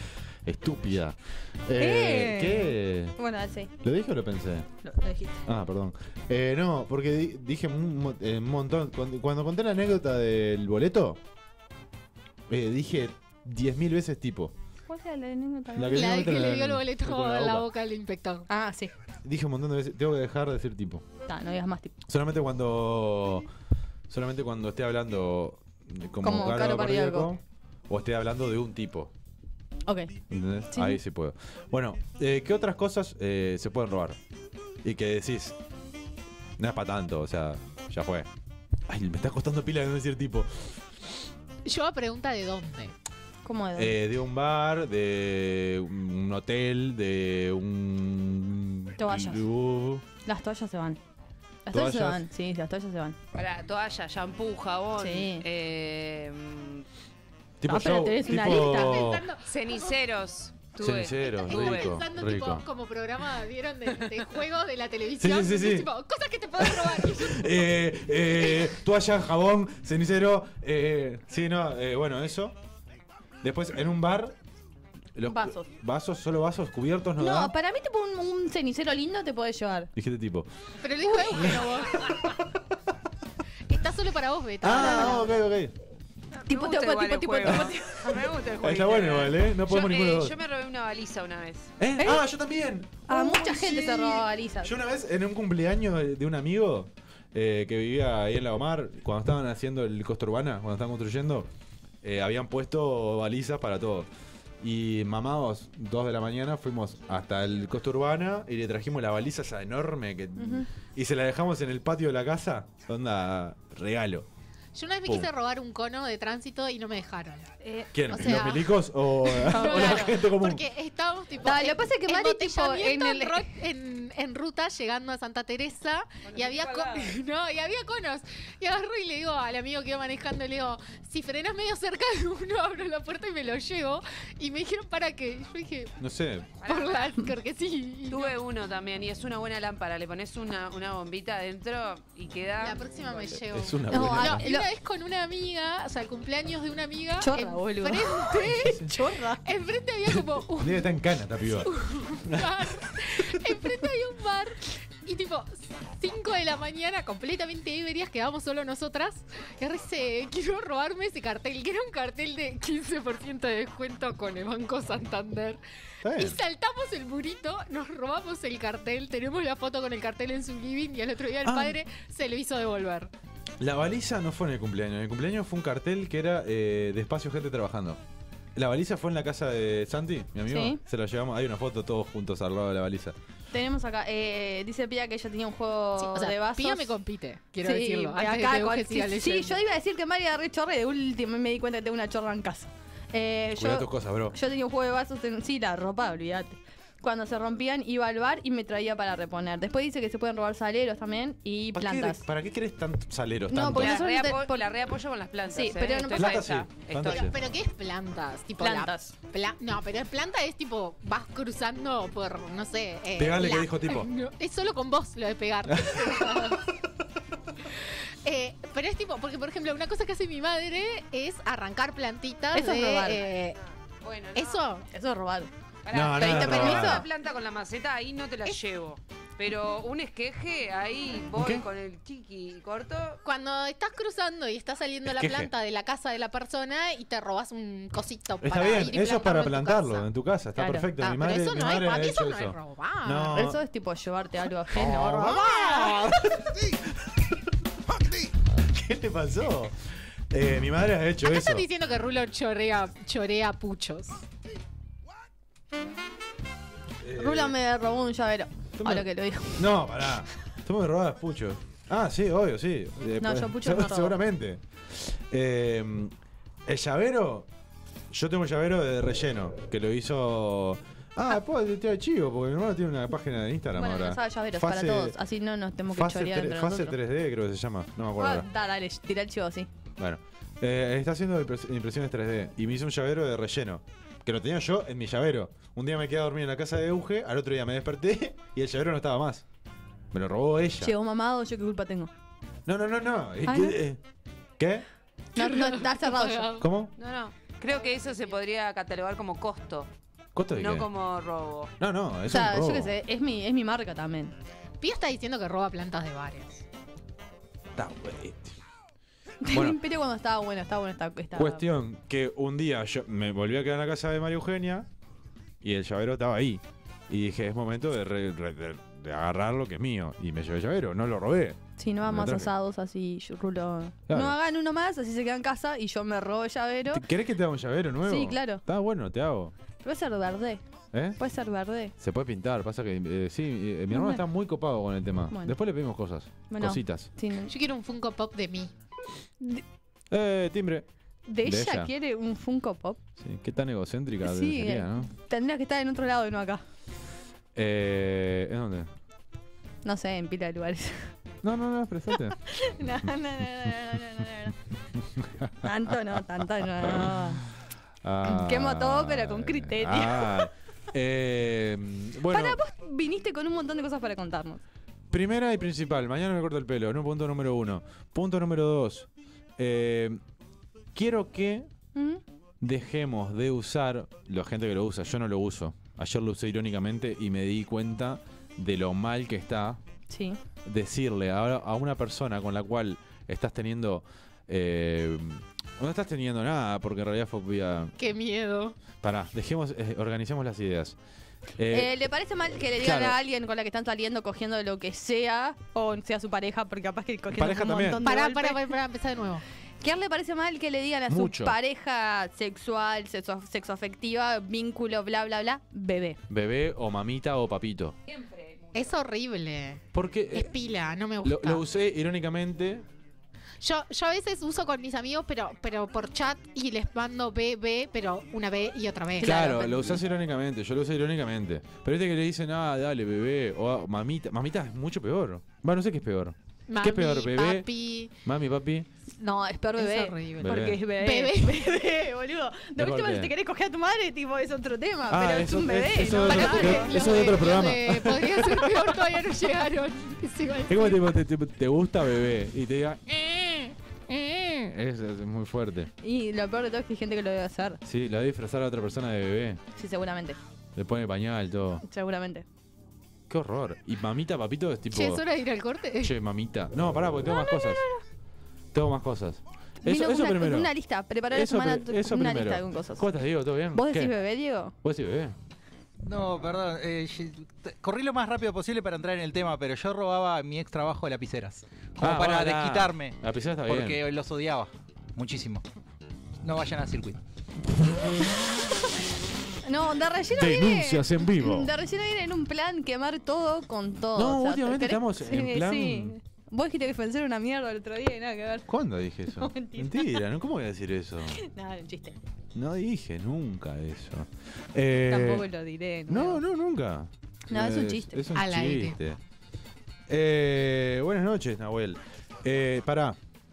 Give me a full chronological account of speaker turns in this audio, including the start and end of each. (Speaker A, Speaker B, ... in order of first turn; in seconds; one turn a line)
Speaker A: 0.5-3.2
Speaker B: 1.8-3.7
Speaker A: 3.8-4.7
Speaker B: 4.8-5.4
Speaker A: 5.5-11.2
Speaker A: 12.5-14.5
Speaker B: 14.9-16.3
Speaker A: 15.8-17.7
Speaker C: 15.9-18.5
Speaker B: 18.5-18.9
Speaker A: 19.2-21.1
Speaker B: 21.3-21.9
Speaker A: 22.1-23.5
Speaker A: 24.1-29.1
Speaker B: 26.2-27.3
Speaker B: 29.9-30.1
Speaker A: 30.3-34.2
Speaker B: 30.7-31.0
Speaker A: 34.8-35.6
Speaker A: 36.6-38.3
Speaker A: 38.9-40.7
Speaker C: 41.7-42.9
Speaker B: 43.4-44.0
Speaker A: 43.8-50.0
Speaker B: 49.0-49.4
Speaker B: 50.2-51.0
Speaker B: 51.7-53.2
Speaker A: 51.7-52.2
Speaker D: 53.3-56.9
Speaker B: 55.0-55.4
Speaker A: 57.6-59.2
Speaker B: 57.7-59.1
Speaker C: 58.4-60.0
Speaker D: 59.5-62.0
Speaker A: 60.8-62.7
Speaker C: 61.4-67.7
Speaker A: 65.2-65.9
Speaker A: 66.6-72.6
Speaker A: 73.4-74.4
Speaker A: 75.2-77.5
Speaker B: 75.3-75.7
Speaker B: 77.2-79.9
Speaker A: 80.0-80.5
Speaker C: 80.8-82.2
Speaker A: 81.3-81.7
Speaker C: 83.7-85.3
Speaker A: 84.6-85.7
Speaker B: 84.8-85.2
Speaker D: 86.5-91.7
Speaker B: 86.5-88.2
Speaker A: 87.5-87.7
Speaker A: 88.6-90.3
Speaker A: 91.8-101.5
Speaker B: 92.0-92.2
Speaker B: 93.1-94.7
Speaker A: 102.0-104.1
Speaker A: 104.6-114.3
Speaker B: 110.4-110.7
Speaker C: 114.8-117.5
Speaker A: 117.9-120.6
Speaker C: 118.1-135.9
Speaker B: 119.5-120.1
Speaker B: 121.4-123.5
Speaker D: 126.3-127.2
Speaker A: 136.0-136.5
Speaker D: 136.6-137.2
Speaker C: 136.7-138.4
Speaker D: 138.1-143.4
Speaker C: 142.6-148.8
Speaker A: 143.5-144.4
Speaker B: 143.9-144.7
Speaker B: 147.2-149.4
Speaker A: 148.5-148.9
Speaker C: 149.4-150.9
Speaker A: 150.1-151.7
Speaker C: 151.6-165.6
Speaker A: 152.3-152.7
Speaker A: 166.0-166.4
Speaker C: 166.2-173.1
Speaker A: 171.4-171.8
Speaker A: 173.6-178.0
Speaker A: 178.6-183.2
Speaker B: 180.5-180.8
Speaker B: 183.5-187.0
Speaker C: 186.0-189.6
Speaker B: 187.6-202.2
Speaker A: 193.6-194.3
Speaker A: 201.7-204.0
Speaker B: 203.5-204.6
Speaker D: 203.7-207.3
Speaker B: 205.5-206.4
Speaker A: 206.2-207.4
Speaker C: 207.1-216.6
Speaker B: 208.6-209.2
Speaker A: 213.2-214.1
Speaker A: 215.8-216.1
Speaker C: 218.2-223.6
Speaker B: 222.5-223.2
Speaker D: 224.0-224.6
Speaker C: 224.3-224.8
Speaker B: 224.9-225.5
Speaker D: 225.9-233.2
Speaker A: 225.9-227.1
Speaker B: 226.2-227.1
Speaker A: 231.4-231.7
Speaker C: 233.2-240.1
Speaker A: 235.1-235.5
Speaker A: 238.4-243.6
Speaker B: 240.6-240.9
Speaker C: 241.0-243.5
Speaker B: 243.3-245.8
Speaker A: 244.7-246.7
Speaker A: 248.6-249.8
Speaker A: 250.3-251.7
Speaker C: 251.3-254.2
Speaker A: 257.0-257.6
Speaker B: 257.1-259.7
Speaker A: 258.8-266.1
Speaker B: 263.2-264.2
Speaker A: 266.7-267.5
Speaker A: 268.1-275.2
Speaker B: 273.8-277.0
Speaker A: 275.9-278.5
Speaker B: 278.2-279.7
Speaker A: 280.0-289.4
Speaker A: 290.1-290.9
Speaker B: 290.8-292.1
Speaker A: 292.7-294.0
Speaker B: 293.5-293.8
Speaker A: 294.6-294.9
Speaker B: 295.4-296.6
Speaker C: 295.4-296.6
Speaker A: 296.6-296.9
Speaker D: 297.0-299.9
Speaker A: 300.4-300.9
Speaker D: 300.6-301.7
Speaker A: 301.8-302.9
Speaker B: 302.3-304.3
Speaker C: 304.8-306.6
Speaker A: 307.8-308.6
Speaker B: 309.4-311.7
Speaker A: 309.5-309.8
Speaker A: 311.4-314.9
Speaker A: 315.6-322.5
Speaker B: 321.8-327.0
Speaker A: 324.1-324.4
Speaker A: 326.9-329.5
Speaker B: 328.0-328.6
Speaker B: 329.8-330.6
Speaker A: 330.9-331.2
Speaker B: 331.2-331.9
Speaker A: 332.0-337.1
Speaker B: 333.9-334.2
Speaker B: 335.3-335.6
Speaker B: 336.5-337.5
Speaker C: 337.5-338.7
Speaker A: 340.1-340.9
Speaker B: 341.3-343.0
Speaker A: 341.4-341.9
Speaker A: 343.2-345.1
Speaker B: 344.2-346.6
Speaker A: 347.6-348.9
Speaker B: 349.8-351.1
Speaker A: 351.4-352.4
Speaker B: 352.5-354.6
Speaker A: 355.4-356.2
Speaker B: 355.6-357.4
Speaker A: 356.8-357.2
Speaker A: 358.0-362.6
Speaker B: 358.2-360.5
Speaker B: 362.3-364.6
Speaker A: 365.1-370.2
Speaker A: 370.9-371.7
Speaker B: 371.9-372.2
Speaker A: 372.6-379.8
Speaker B: 380.1-380.4
Speaker A: 380.6-387.9
Speaker C: 388.0-388.8
Speaker A: 389.0-391.0
Speaker A: 391.6-391.9
Speaker B: 391.7-398.7
Speaker A: 392.8-393.2
Speaker A: 397.3-398.1
Speaker C: 398.0-399.4
Speaker B: 399.8-406.2
Speaker A: 401.1-401.6
Speaker A: 406.3-408.0
Speaker D: 408.1-408.8
Speaker C: 408.7-411.6
Speaker A: 409.9-410.6
Speaker A: 411.2-412.9
Speaker C: 413.6-419.9
Speaker A: 419.2-427.7
Speaker B: 419.2-419.8
Speaker C: 426.7-428.1
Speaker A: 428.2-428.9
Speaker B: 429.2-437.0
Speaker C: 429.7-431.7
Speaker A: 430.4-430.8
Speaker A: 432.8-433.3
Speaker A: 435.1-439.1
Speaker C: 436.1-441.1
Speaker A: 440.7-443.0
Speaker C: 443.1-444.7
Speaker A: 444.7-445.9
Speaker B: 446.0-447.8
Speaker A: 447.8-449.6
Speaker B: 449.8-450.4
Speaker A: 450.8-451.8
Speaker B: 451.8-452.4
Speaker A: 453.3-455.2
Speaker C: 454.9-456.1
Speaker A: 456.0-457.8
Speaker B: 457.2-458.0
Speaker A: 458.7-460.7
Speaker B: 459.8-463.1
Speaker A: 461.3-464.1
Speaker B: 463.7-464.7
Speaker A: 464.8-465.4
Speaker E: 466.0-473.2
Speaker A: 472.0-474.0
Speaker E: 473.7-475.6
Speaker E: 476.4-477.2
Speaker B: 479.6-488.7
Speaker A: 480.4-481.7
Speaker A: 484.1-486.2
Speaker A: 488.7-491.4
Speaker B: 489.3-490.2
Speaker B: 491.4-492.2
Speaker A: 492.6-495.5
Speaker B: 495.1-496.4
Speaker A: 496.1-499.2
Speaker B: 497.5-498.2
Speaker C: 498.3-498.9
Speaker A: 500.1-503.2